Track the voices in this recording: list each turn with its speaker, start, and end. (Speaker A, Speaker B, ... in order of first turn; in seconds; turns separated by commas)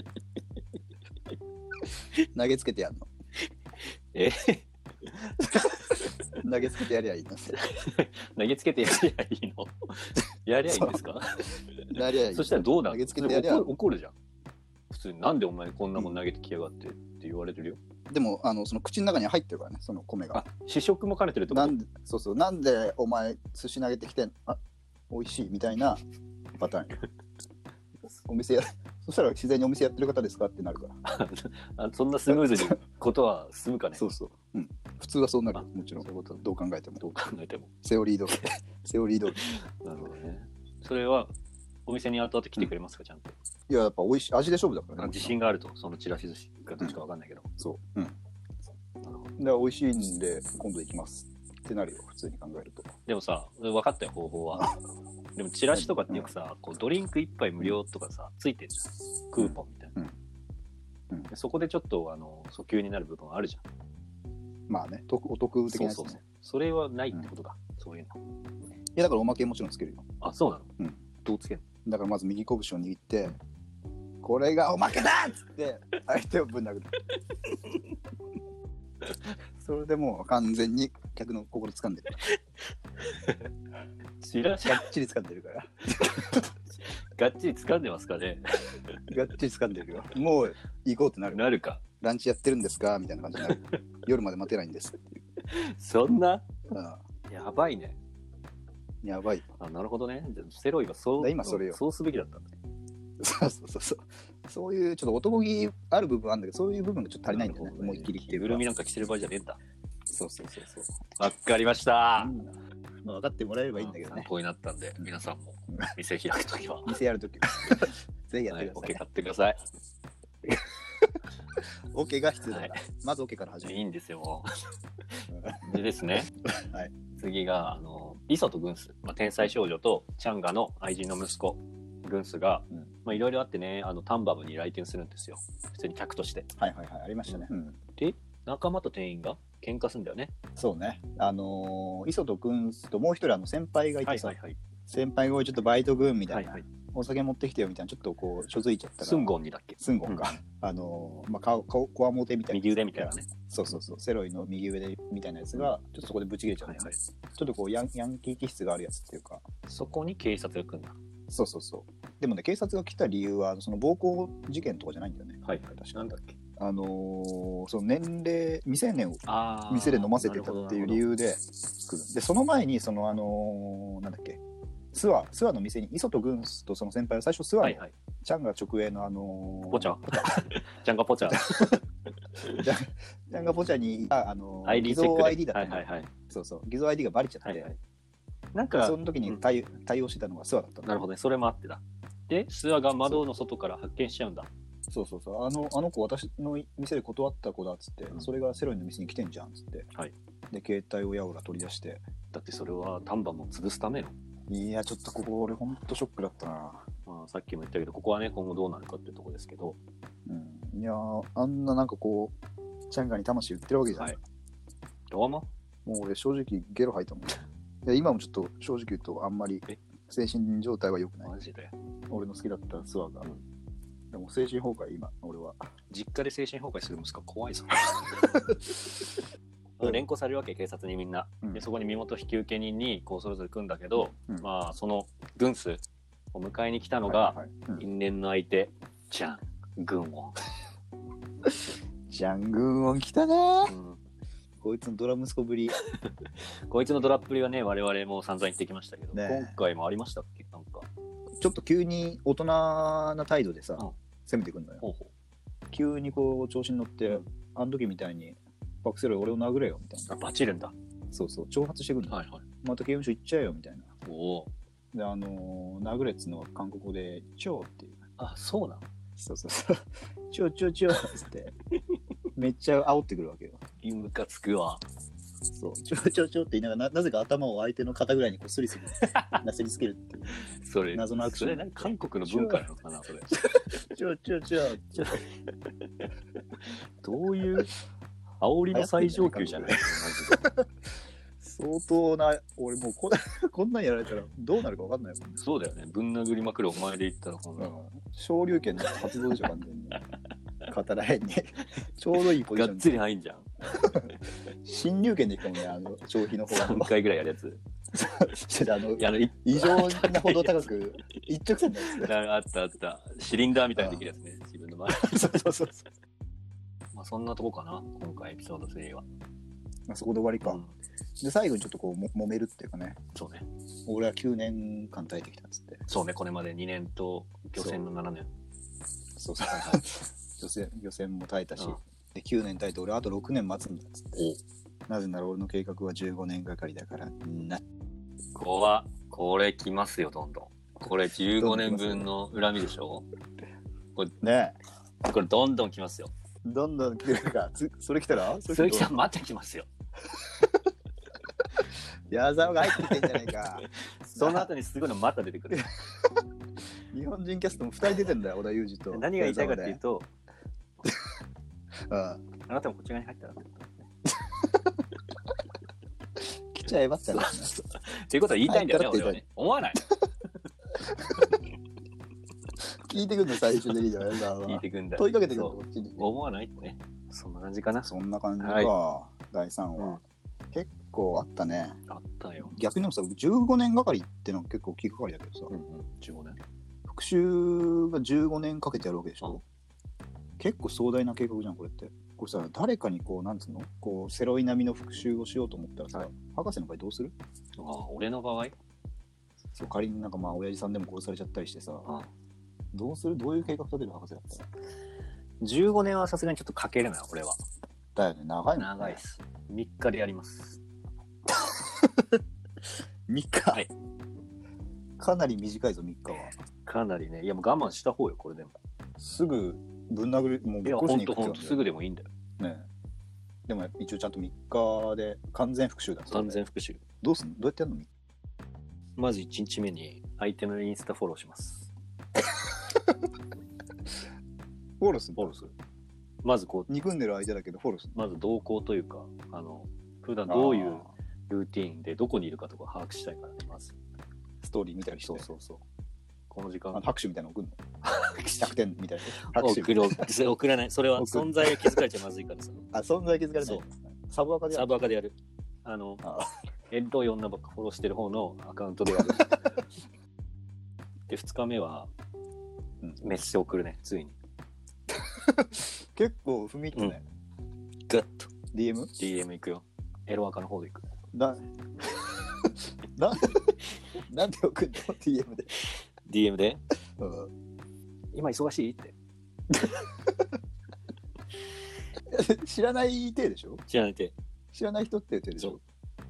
Speaker A: 2.2-3.1, Speaker B: 4.1-6.0, Speaker A: 6.3-7.6, Speaker B: 7.5-14.1, Speaker A: 10.7-11.0, Speaker A: 11.9-13.7, Speaker B: 14.9-17.8, Speaker A: 18.1-20.4, Speaker B: 20.3-21.8, Speaker A: 21.5-26.0, Speaker A: 26.5-27.0, Speaker A: 28.2-31.0, Speaker B: 31.0-34.1, Speaker A: 32.3-32.7, Speaker A: 34.0-37.0, Speaker B: 35.5-36.4, Speaker B: 37.0-37.7, Speaker A: 37.8-39.4, Speaker B: 39.4-41.3, Speaker B: 41.9-43.3, Speaker A: 43.7-45.3, Speaker B: 45.0-47.5, Speaker A: 47.6-48.2, Speaker B: 49.0-49.3, Speaker A: 49.4-52.9, Speaker B: 53.0-54.8, Speaker B: 55.4-60.0, Speaker A: 55.7-56.3, Speaker A: 59.4-60.1, Speaker B: 61.3-63.6, Speaker A: 64.7-66.2, Speaker B: 65.7-68.2, Speaker A: 68.9-70.0, Speaker B: 70.2-71.6, Speaker A: 71.8-73.4, Speaker A: 74.2-77.0, Speaker A: 79.6-82.2, Speaker B: 83.0-83.4, Speaker B: 84.2-84.9, Speaker A: 84.6-86.5, Speaker B: 86.3-88.8, Speaker A: 89.1-91.4, Speaker B: 91.3-91.8, Speaker A: 92.0-95.2, Speaker B: 95.4-96.5, Speaker A: 96.7-97.0, Speaker B: 97.3-98.0, Speaker A: 99.0-99.5, Speaker B: 99.6-102.5, Speaker A: 101.2-101.8, Speaker A: 103.2-108.6, Speaker B: 107.3-109.6, Speaker A: 110.1-111.0, Speaker B: 111.2-112.3, Speaker A: 112.2-114.3, Speaker B: 113.8-117.0, Speaker A: 116.8-119.0, Speaker B: 118.5-119.6, Speaker A: 121.9-123.8, Speaker B: 122.5-122.8, Speaker B: 123.6-124.5, Speaker B: 125.1-126.3, Speaker A: 125.3-125.6, Speaker A: 126.4-126.9, Speaker B: 127.1-136.5, Speaker A: 136.6-137.8, Speaker B: 138.0-140.3, Speaker A: 140.6-159.4, Speaker B: 144.0-144.6, Speaker B: 146.3-146.7, Speaker B: 149.0-150.3, Speaker B: 152.5-153.3, Speaker B: 156.6-157.0, Speaker B: 159.7-161.0, Speaker A: 161.3-174.4, Speaker B: 165.4-166.3, Speaker B: 169.2-171.1, Speaker A: 174.9-180.5, Speaker B: 177.6-177.9, Speaker B: 179.7-181.8, Speaker A: 181.3-181.8, Speaker A: 182.4-187.7, Speaker B: 184.6-186.1, Speaker B: 187.4-187.8, Speaker B: 188.5-189.4, Speaker A: 188.8-191.0, Speaker B: 190.8-194.5, Speaker A: 194.9-199.9, Speaker A: 200.5-202.0, Speaker B: 202.3-204.2, Speaker A: 204.5-206.9, Speaker B: 207.1-209.8, Speaker A: 210.2-212.3, Speaker A: 212.9-214.2, Speaker B: 213.9-214.2, Speaker B: 215.1-215.5, Speaker A: 215.8-221.3, Speaker B: 221.2-221.7, Speaker A: 222.1-223.3, Speaker A: 224.1-225.7, Speaker B: 225.9-228.3, Speaker A: 228.2-228.6, Speaker B: 229.8-235.8, Speaker B: 236.3-240.4, Speaker A: 237.1-237.8, Speaker A: 242.1-243.7, Speaker B: 243.7-244.0, Speaker A: 244.6-245.8, Speaker B: 246.4-250.9, Speaker A: 249.1-249.6, Speaker A: 251.4-254.8, Speaker B: 254.8-255.1, Speaker A: 255.7-260.1, Speaker B: 260.1-260.7, Speaker A: 261.1-263.9, Speaker B: 262.1-262.4, Speaker B: 264.0-264.5, Speaker A: 264.9-268.0, Speaker B: 268.2-268.8, Speaker A: 269.2-271.5, Speaker A: 272.3-273.6, Speaker B: 273.8-274.8, Speaker A: 275.5-280.3, Speaker B: 279.0-279.4, Speaker B: 280.4-283.7, Speaker A: 280.9-282.6, Speaker A: 283.7-285.2, Speaker B: 284.9-285.4, Speaker B: 287.0-287.7, Speaker B: 288.4-290.5, Speaker A: 288.7-290.7, Speaker A: 291.4-295.4, Speaker B: 295.4-297.7, Speaker A: 297.6-300.0, Speaker A: 300.7-303.0, Speaker B: 302.2-303.9, Speaker A: 303.7-306.9, Speaker B: 306.5-307.6, Speaker A: 307.9-312.1, Speaker B: 308.9-310.7, Speaker B: 311.8-315.8, Speaker A: 313.8-314.0, Speaker A: 314.9-315.7, Speaker B: 316.9-319.1, Speaker A: 319.9-320.6, Speaker B: 320.4-320.7, Speaker A: 321.2-323.0, Speaker B: 323.1-323.4, Speaker A: 323.9-325.8, Speaker B: 325.9-328.3, Speaker A: 329.1-334.2, Speaker B: 329.4-329.8, Speaker A: 334.9-337.6, Speaker B: 338.3-343.1, Speaker A: 341.3-342.1, Speaker A: 344.2-344.6, Speaker B: 345.0-346.1, Speaker A: 346.4-348.9, Speaker B: 348.4-349.7, Speaker A: 350.2-350.6, Speaker A: 352.1-354.5, Speaker B: 352.7-353.1, Speaker B: 354.1-355.7, Speaker A: 355.5-356.1, Speaker A: 356.9-359.8, Speaker B: 358.9-360.1, Speaker A: 361.9-362.2, Speaker B: 362.4-363.9, Speaker A: 364.2-364.7, Speaker A: 366.5-367.5, Speaker B: 367.1-369.9, Speaker A: 368.4-369.2, Speaker A: 372.8-376.0, Speaker B: 374.4-378.7, Speaker A: 377.8-380.0, Speaker A: 380.5-381.8, Speaker B: 381.9-382.6, Speaker A: 382.5-385.5, Speaker B: 385.5-386.4, Speaker A: 386.9-389.4, Speaker A: 390.4-397.1, Speaker B: 397.6-398.5, Speaker A: 399.6-401.9, Speaker A: 402.7-404.5, Speaker B: 405.4-407.4, Speaker A: 407.9-409.0, Speaker B: 408.6-410.6, Speaker A: 411.3-412.2, Speaker A: 413.1-413.6, Speaker A: 415.0-416.3, Speaker B: 416.6-418.6, Speaker A: 419.0-421.6, Speaker B: 420.6-422.1, Speaker A: 422.4-422.7, Speaker A: 423.5-426.4, Speaker B: 426.1-426.8, Speaker A: 427.0-427.9, Speaker B: 429.0-431.7, Speaker A: 434.8-435.3, Speaker B: 435.2-435.5, Speaker B: 436.2-436.7, Speaker A: 436.7-437.9, Speaker B: 437.9-443.8, Speaker A: 440.3-440.9, Speaker A: 444.4-445.3, Speaker B: 445.0-445.6, Speaker B: 446.3-446.9, Speaker A: 446.7-447.6, Speaker B: 447.8-448.5, Speaker A: 448.4-450.1, Speaker B: 449.2-452.6, Speaker A: 450.9-451.8, Speaker A: 452.7-454.9, Speaker B: 454.5-456.1, Speaker A: 456.0-456.3, Speaker B: 456.7-459.6, Speaker B: 461.1-461.9, Speaker B: 463.0-464.2, Speaker A: 464.9-467.0, Speaker B: 467.9-468.3, Speaker A: 468.5-468.9, Speaker B: 469.0-470.8, Speaker A: 471.1-471.4, Speaker A: 471.9-475.5, Speaker B: 475.6-476.6, Speaker A: 477.0-477.3, Speaker B: 478.1-478.9, Speaker A: 479.5-480.3, Speaker A: 482.1-483.6, Speaker B: 483.7-484.1, Speaker A: 484.5-485.6